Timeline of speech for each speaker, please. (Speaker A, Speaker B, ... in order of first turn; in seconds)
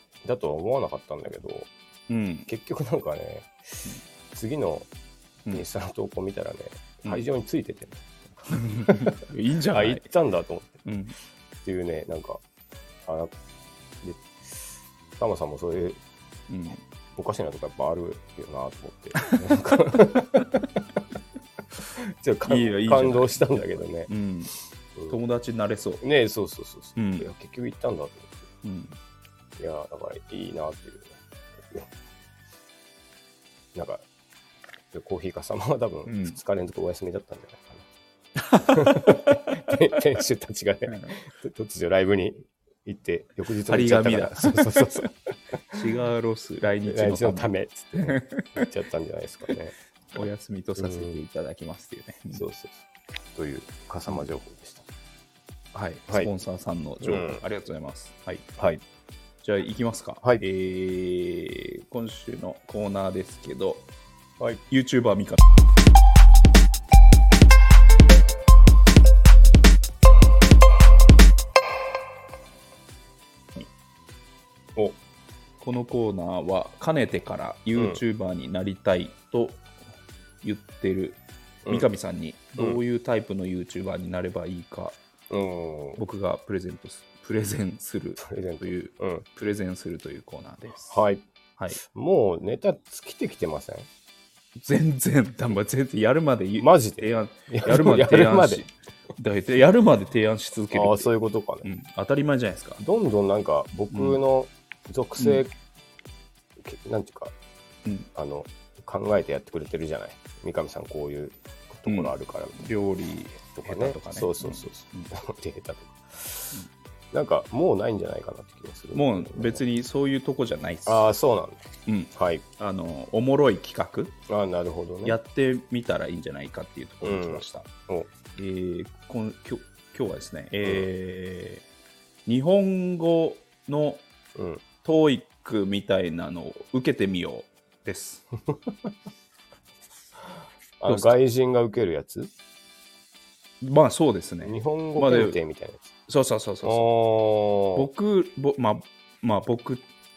Speaker A: 0.2-1.7, 2.5-4.9, 5.5-9.2, 9.7-10.8, 11.6-12.4, 13.1-13.3, 14.0-16.0, 17.2-20.6, 21.9-24.1, 26.0-28.4, 29.6-31.9, 33.7-34.0, 34.9-37.9, 38.7-45.1, 46.9-49.7, 50.8-51.2, 52.3-52.8, 53.4-54.9, 57.0-57.4, 77.8-78.0, 85.3-86.0, 88.2-89.2, 90.9-91.2, 91.8-93.9, 96.6-98.7, 100.7-101.7, 102.8-105.5, 106.6-107.3, 108.2-112.7, 113.5-116.6, 117.1-119.6, 120.9-122.4, 124.3-125.2, 127.0-128.1, 130.6-130.9, 134.3-134.6, 140.8-142.3, 144.4-145.9, 146.6-147.9
Speaker B: 2.1-2.5, 8.5-10.1, 10.8-11.2, 16.5-16.8, 22.5-24.5, 25.1-26.0, 27.0-27.3, 28.6-29.0, 36.1-36.4, 38.4-39.7, 40.9-41.2, 43.7-45.1, 45.7-48.6, 50.1-52.4, 55.7-58.6, 59.4-63.9, 64.7-65.4, 75.6-79.6, 80.4-85.0, 86.0-91.0, 94.7-101.1, 101.6-102.8, 103.9-104.2, 111.9-115.1, 118.9-121.1, 121.9-124.2, 125.0-127.7, 128.4-131.7, 132.3-134.1, 134.8-138.3, 140.9-141.1, 143.6-145.4, 146.1-146.9, 147.7-149.9